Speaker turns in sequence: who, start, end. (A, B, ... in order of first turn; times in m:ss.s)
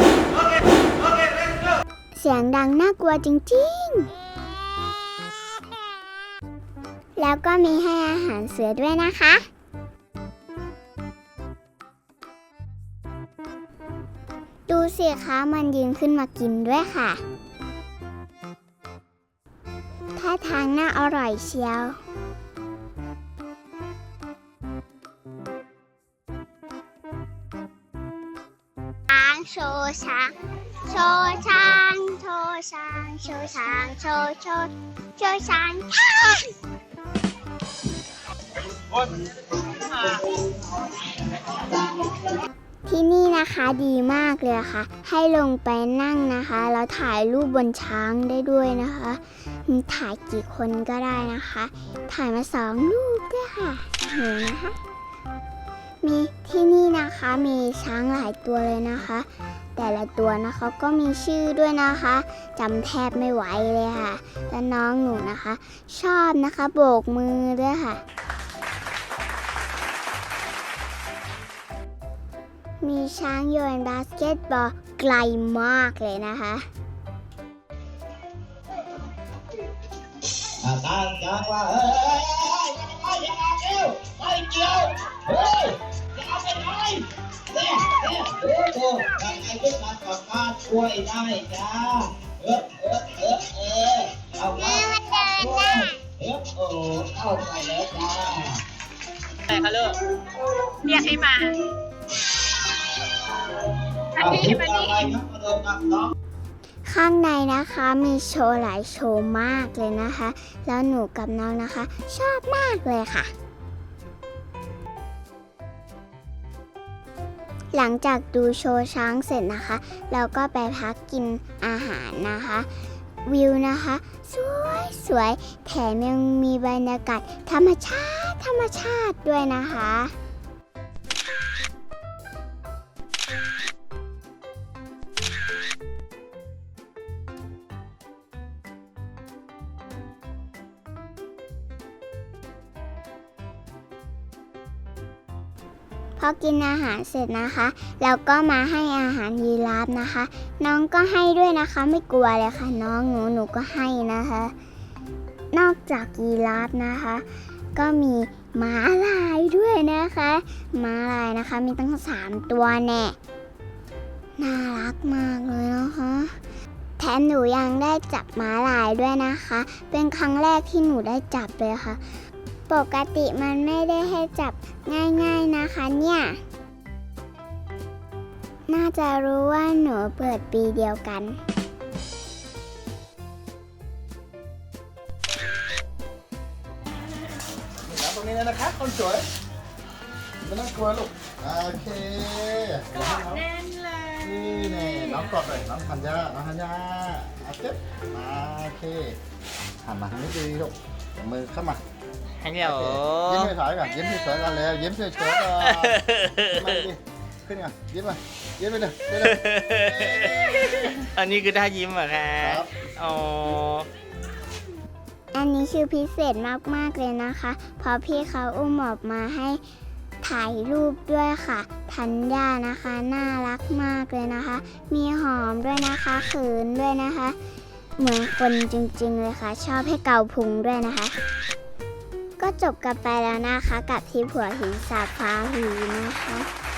0:02.1-0:04.1 A
0:07.2-0:09.5 A
0:14.7-0:17.2 A
0:20.2-0:22.0 A
0:29.1-0:36.5 A
0:42.9-0:54.8 A
0:56.0-1:08.0 A
1:12.8-1:16.7 A
1:20.6-1:38.6 B
1:34.5-1:36.0 A
1:40.8-1:41.6 C
1:44.2-1:45.1 C
1:44.2-1:46.1 B
1:46.8-1:53.3 A
1:57.7-2:02.7 A
2:03.2-2:10.1 A
2:26.2-2:34.5 A
2:35.5-2:43.2 A
2:44.4-2:46.4 A
2:47.0-2:52.0 A
2:52.7-2:56.4 A
2:58.7-3:01.4 A
3:07.8-3:09.3 D
3:10.4-3:13.5 D
3:13.4-3:14.1 C
3:14.2-3:19.2 D
3:19.8-3:21.8 D
3:22.4-3:23.5 E
3:22.6-3:26.0 D
3:25.5-3:26.7 E
3:26.5-3:29.4 D
3:29.2-3:33.9 E
3:32.4-3:32.7 D
3:35.3-3:39.6 A
3:40.2-3:47.4 A
3:48.0-3:51.2 A
3:52.4-3:56.5 A